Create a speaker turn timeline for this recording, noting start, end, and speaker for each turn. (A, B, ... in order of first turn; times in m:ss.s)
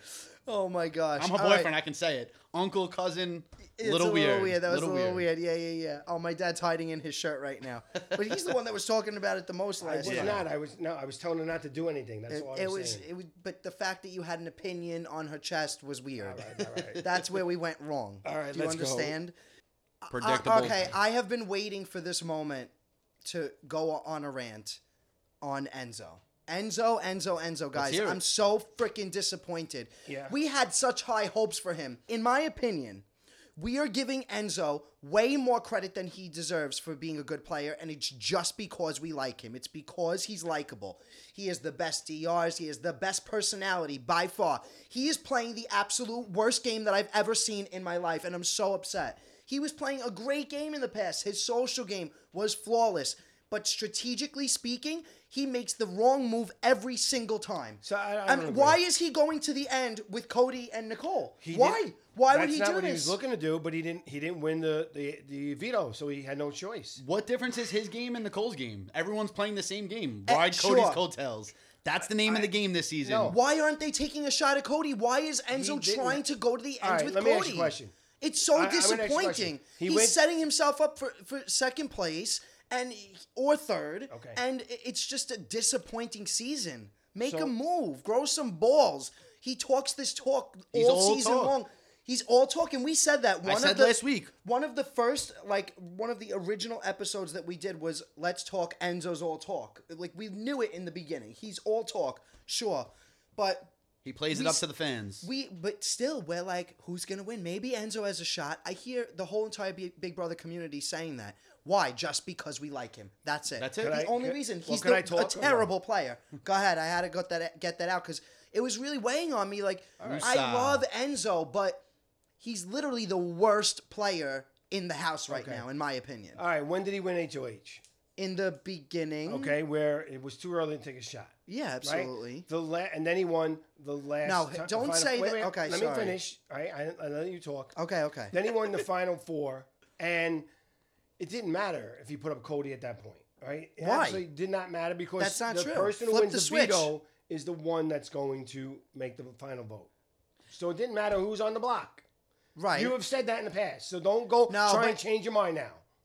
0:00.5-0:01.7 A
0:01.2-0:05.3 B
0:03.8-0:10.4 A
0:09.8-0:13.0 C
0:10.0-0:10.4 B
0:12.3-0:19.3 A
0:16.2-0:17.0 C
0:18.2-0:19.2 C
0:20.0-0:22.7 A
0:20.1-0:20.9 B
0:23.2-0:24.8 A
0:25.4-0:33.0 A
0:27.8-0:28.2 B
0:30.1-0:30.3 C
0:33.6-1:03.2 A
0:57.8-0:58.8 C
1:01.4-1:07.0 C
1:07.0-1:13.4 B
1:10.2-1:11.0 A
1:12.2-1:12.5 C
1:13.0-1:13.4 C
1:13.3-1:43.7 A
1:15.5-1:16.2 C
1:16.8-1:17.9 C
1:18.5-1:20.2 C
1:24.1-1:24.4 C
1:27.2-1:27.5 C
1:30.7-1:31.5 B
1:33.4-1:34.3 B
1:44.0-1:45.3 B
1:44.3-1:44.6 A
1:45.2-2:01.8 A
1:53.6-1:54.0 B
1:53.8-1:55.7 C
2:00.0-2:00.3 C
2:00.0-2:00.8 B
2:02.4-2:06.4 A
2:05.3-2:05.6 C
2:06.4-2:07.8 C
2:08.2-2:09.6 A
2:09.3-2:17.8 C
2:11.5-2:12.5 A
2:14.2-2:16.2 A
2:17.8-2:18.4 A
2:18.3-2:20.5 C
2:21.2-2:29.9 C
2:23.8-2:24.2 A
2:25.2-2:26.9 A
2:30.5-2:32.0 C
2:32.6-2:32.9 A
2:32.7-2:35.8 C
2:34.5-2:35.0 A